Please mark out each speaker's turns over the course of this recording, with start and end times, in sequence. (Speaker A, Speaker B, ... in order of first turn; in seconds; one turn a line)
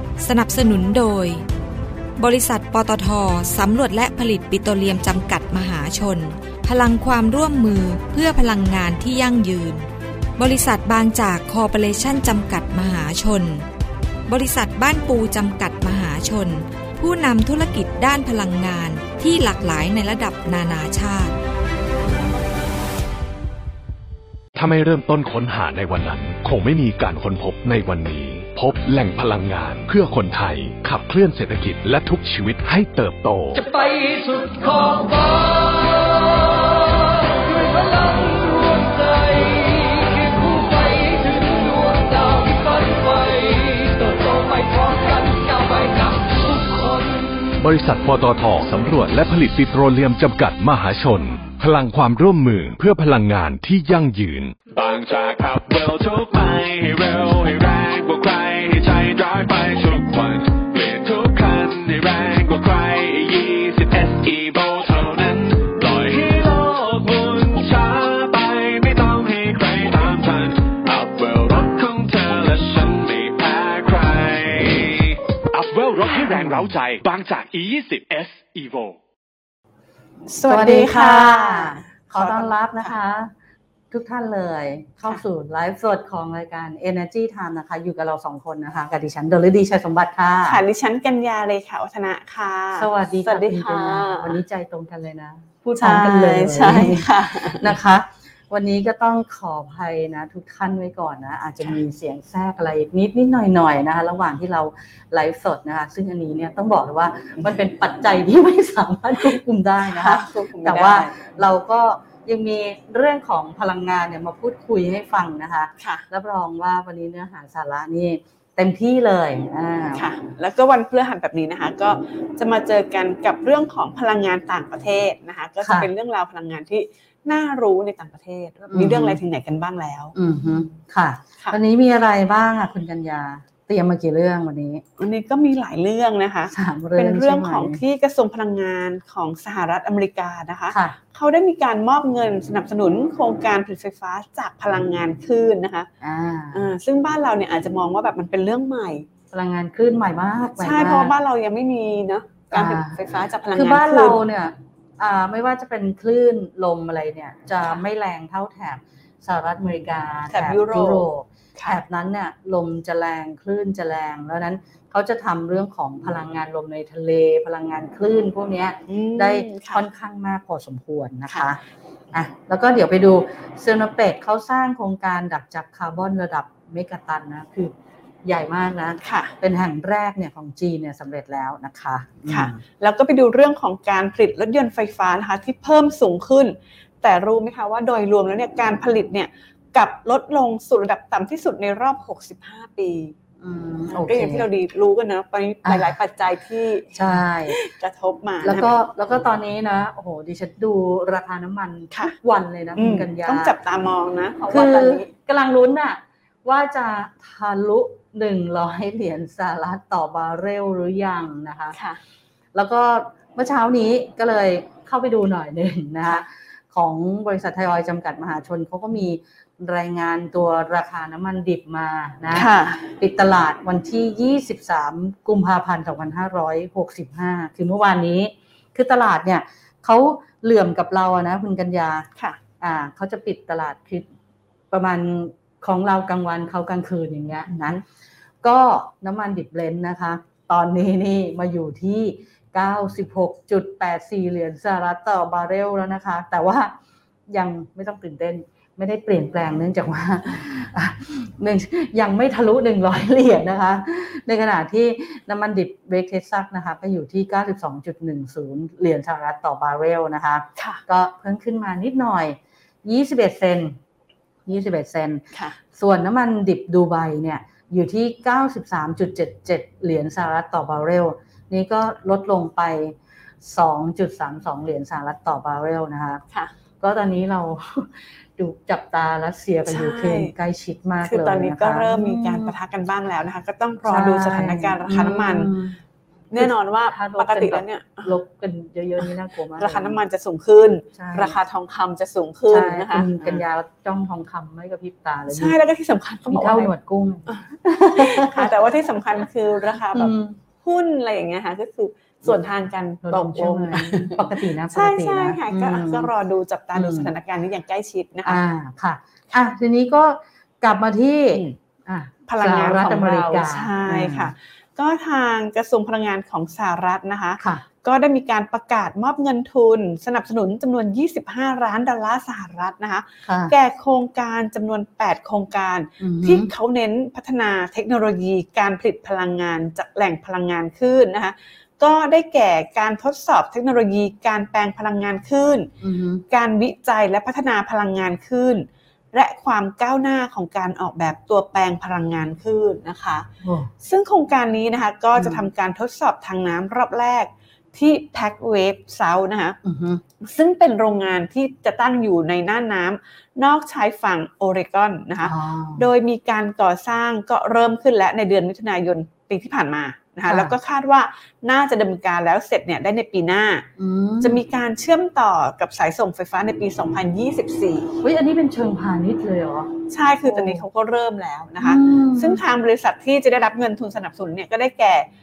Speaker A: 0.2-1.4
Speaker A: 2.2-9.9
Speaker A: 10.4-13.7
Speaker A: 14.3-21.3
Speaker B: 24.6-33.6
Speaker C: 33.5-47.5
Speaker B: 47.6-54.6
Speaker D: 54.7-79.0
Speaker E: 80.3-82.9
Speaker F: 80.5-83.3
Speaker F: 83.9-90.6
Speaker E: 90.5-94.4
Speaker F: 92.8-120.1
Speaker E: 95.8-97.7
Speaker E: 109.8-111.2
Speaker E: 115.8-116.0
Speaker E: 119.9-130.1
Speaker F: 125.6-125.9
Speaker F: 128.7-129.2
Speaker F: 130.2-134.8
Speaker E: 135.0-145.9
Speaker F: 136.5-137.8
Speaker F: 140.7-141.0
Speaker F: 146.0-146.6
Speaker E: 146.5-149.1
Speaker F: 149.3-151.1
Speaker E: 150.6-154.2
Speaker F: 152.5-153.0
Speaker F: 153.5-171.6
Speaker E: 160.3-161.8
Speaker E: 168.9-169.8
Speaker E: 171.3-171.6
Speaker F: 172.1-177.7
Speaker F: 178.2-182.6
Speaker E: 179.0-179.3
Speaker E: 182.3-193.2
Speaker F: 193.4-194.5
Speaker E: 193.9-198.7
Speaker F: 195.6-195.9
Speaker F: 196.9-197.6
Speaker F: 198.4-203.5
Speaker E: 202.8-205.1
Speaker F: 204.5-211.8
Speaker E: 211.7-212.0
Speaker F: 212.5-232.1
Speaker E: 222.3-222.9
Speaker F: 232.6-234.1
Speaker F: 234.7-237.8
Speaker F: 238.4-246.8
Speaker F: 247.3-263.8
Speaker E: 260.6-260.8
Speaker F: 264.5-265.2
Speaker F: 265.7-276.2
Speaker F: 276.8-282.5
Speaker E: 279.7-280.3
Speaker E: 281.0-285.5
Speaker F: 283.8-285.8
Speaker E: 286.3-288.2
Speaker F: 286.4-290.0
Speaker E: 289.6-293.4
Speaker F: 290.9-291.4
Speaker F: 292.5-295.6
Speaker E: 295.3-296.7
Speaker F: 296.3-298.5
Speaker E: 297.3-308.4
Speaker F: 299.9-300.4
Speaker F: 303.0-306.1
Speaker F: 306.8-307.1
Speaker F: 308.2-314.3
Speaker E: 311.3-311.6
Speaker E: 312.3-335.7
Speaker F: 317.4-317.6
Speaker F: 323.2-323.5
Speaker F: 326.0-326.5
Speaker F: 335.8-336.2
Speaker E: 336.3-343.3
Speaker F: 343.4-343.7
Speaker E: 343.8-349.6
Speaker F: 345.2-345.5
Speaker F: 349.6-350.0
Speaker E: 350.2-363.7
Speaker F: 355.2-355.9
Speaker F: 360.3-360.6
Speaker F: 363.8-364.4
Speaker E: 364.2-367.9
Speaker F: 368.0-369.7
Speaker E: 369.9-375.1
Speaker F: 370.2-370.6
Speaker F: 371.6-372.4